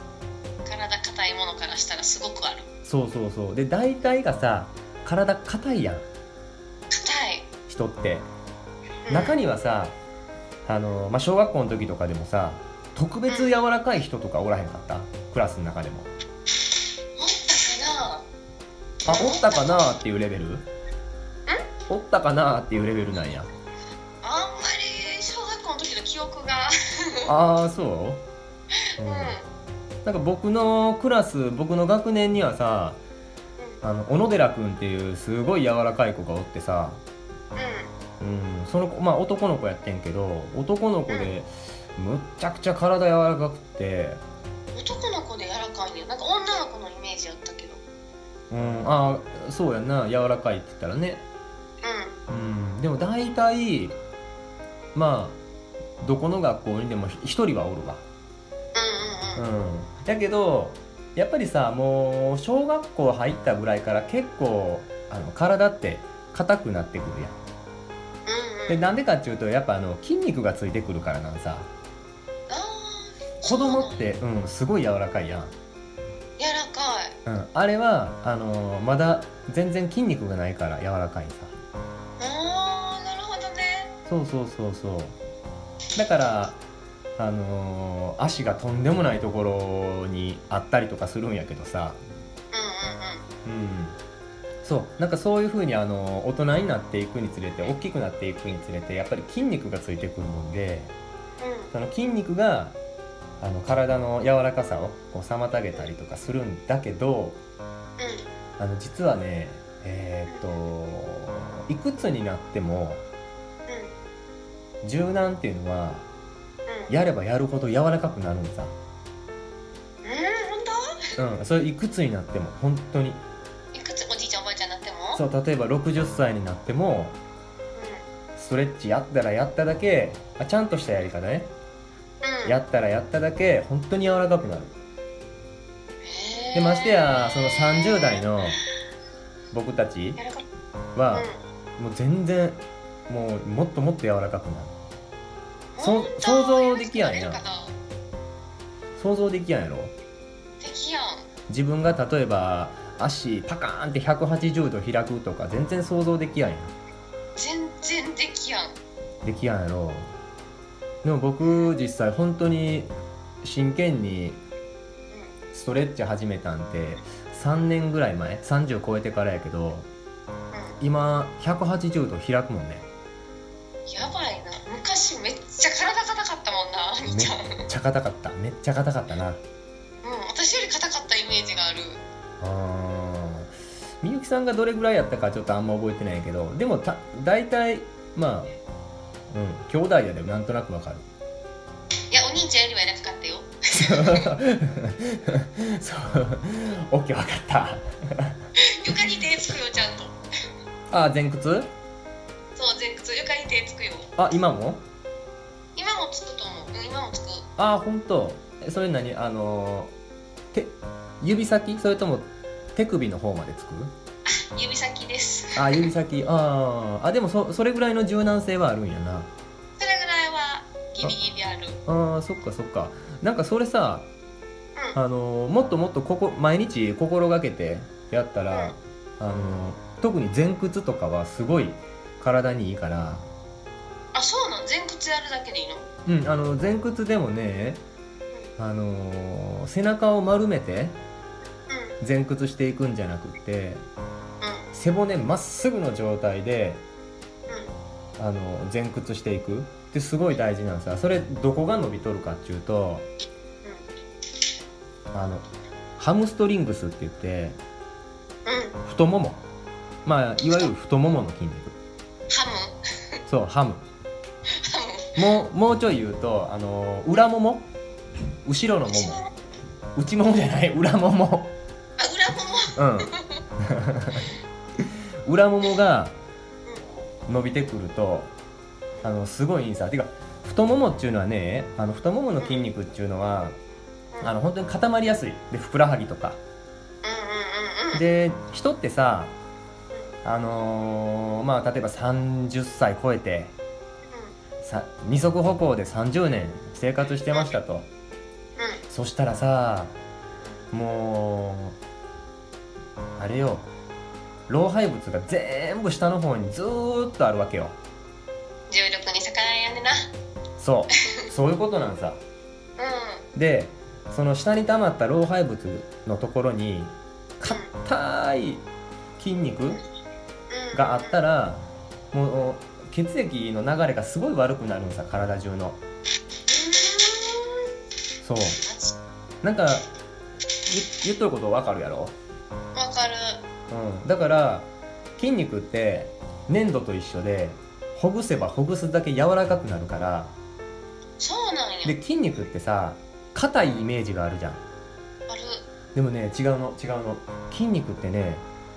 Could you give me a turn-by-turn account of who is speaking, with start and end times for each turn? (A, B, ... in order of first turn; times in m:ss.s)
0:00.6-0:02.7 A
0:02.8-0:06.1 B
0:06.9-0:07.5 A
0:07.7-0:08.3 B
0:09.1-0:09.4 A
0:09.1-0:10.0 B
0:10.6-0:16.1 B
0:13.3-0:13.6 A
0:17.2-0:18.3 A
0:19.0-0:19.8 A
0:19.0-0:20.7 B
0:21.9-0:23.5 B
0:24.2-0:27.3 A
0:27.3-0:28.2 B
0:29.0-0:29.5 A
0:29.0-0:29.4 B
0:30.0-0:33.0 B
0:33.8-0:37.0 B
0:37.6-0:37.9 A
0:38.2-0:44.2 B
0:44.7-0:47.8 A
0:48.5-0:51.2 B
0:51.8-0:52.2 A
0:52.3-0:54.0 B
0:55.0-0:55.4 B
0:56.0-0:58.0 B
0:58.7-0:59.4 A
0:59.4-1:07.4 B
1:08.3-1:08.8 A
1:08.7-1:11.7 B
1:12.5-1:14.0 A
1:13.4-1:15.5 B
1:16.4-1:17.2 A
1:17.3-1:21.6 B
1:22.2-1:24.0 A
1:24.1-1:25.2 B
1:26.0-1:26.6 B
1:27.2-1:32.0 B
1:32.5-1:33.3 A
1:33.4-1:34.0 B
1:34.6-1:40.9 B
1:41.4-1:41.7 A
1:41.7-1:42.8 B
1:43.4-1:47.4 B
1:48.0-1:48.3 A
1:48.6-1:53.0 B
1:53.7-1:54.0 A
1:54.8-1:56.1 B
1:56.7-1:56.9 A
1:56.9-1:58.8 B
2:00.0-2:00.8 A
2:01.2-2:03.2 B
2:03.7-2:05.2 A
2:05.2-2:07.2 B
2:07.8-2:08.0 A
2:08.4-2:11.5 B
2:12.2-2:12.6 A
2:12.4-2:14.8 B
2:16.0-2:18.3 A
2:16.6-2:18.6 B
2:19.5-2:20.2 B
2:20.2-2:20.5 A
2:21.0-2:24.8 B
2:21.1-2:21.4 A
2:25.8-2:27.8 A
2:25.8-2:27.4 B
2:29.0-2:29.9 B
2:30.6-2:31.3 A
2:31.5-2:36.7 B
2:37.4-2:38.8 A
2:39.2-2:40.1 B
2:41.0-2:44.4 B
2:45.5-2:49.9 B
2:50.5-2:50.8 A
2:50.8-2:52.9 B
2:53.9-2:57.7 A
2:57.1-2:59.4 B
3:00.0-3:02.0 A
3:02.4-3:08.5 B
3:09.3-3:11.1 B
3:12.1-3:14.3 A
3:13.8-3:18.4 B
3:18.6-3:20.2 A
3:20.9-3:21.7 B
3:22.6-3:24.1 A
3:24.2-3:24.8 B
3:25.8-3:27.5 A
3:27.6-3:29.9 B
3:30.5-3:33.9 B
3:34.3-3:35.9 A
3:35.6-3:39.3 B
3:39.8-3:41.8 A
3:41.9-3:44.1 B
3:45.0-3:53.3 B
3:54.1-3:55.9 A
3:56.1-3:57.8 B
3:58.6-4:01.0 B
4:01.7-4:02.0 A
4:02.0-4:03.8 B
4:04.4-4:04.7 A
4:04.7-4:06.8 B
4:07.5-4:07.8 A
4:08.2-4:13.1 B
4:15.1-4:15.5 B
4:16.0-4:17.6 B
4:18.5-4:18.8 A
4:18.8-4:19.4 B
4:20.0-4:21.8 B
4:22.3-4:23.2 A
4:23.3-4:23.8 B
4:24.5-4:25.4 A
4:25.2-4:27.6 B
4:28.4-4:29.2 B
4:28.9-4:29.3 A
4:30.0-4:31.6 B
4:32.0-4:33.4 A
4:32.8-4:34.3 B
4:35.2-4:36.2 B
4:37.3-4:38.3 B
4:39.0-4:43.6 B
4:44.2-4:46.4 B
4:47.0-4:48.0 A
4:47.9-4:49.4 B
4:50.2-4:53.5 B
4:54.1-4:54.4 A
4:54.6-4:57.9 B
4:58.6-4:58.8 A
4:58.9-5:00.0 B
5:00.7-5:01.8 B
5:03.2-5:03.7 B
5:04.5-5:07.8 B
5:08.7-5:10.1 A
5:10.6-5:12.2 B
5:12.8-5:13.2 A
5:13.4-5:18.7 B
5:17.4-5:17.7 A
5:19.2-5:19.8 B
5:20.5-5:21.2 A
5:20.7-5:25.8 B
5:26.5-5:27.7 A
5:28.2-5:28.6 B
5:28.6-5:29.0 A
5:29.4-5:29.9 B
5:30.7-5:32.2 B
5:32.8-5:33.4 A
5:33.7-5:40.3 B
5:41.2-5:42.0 A
5:41.8-5:44.6 B
5:45.3-5:45.6 A
5:46.0-5:48.4 B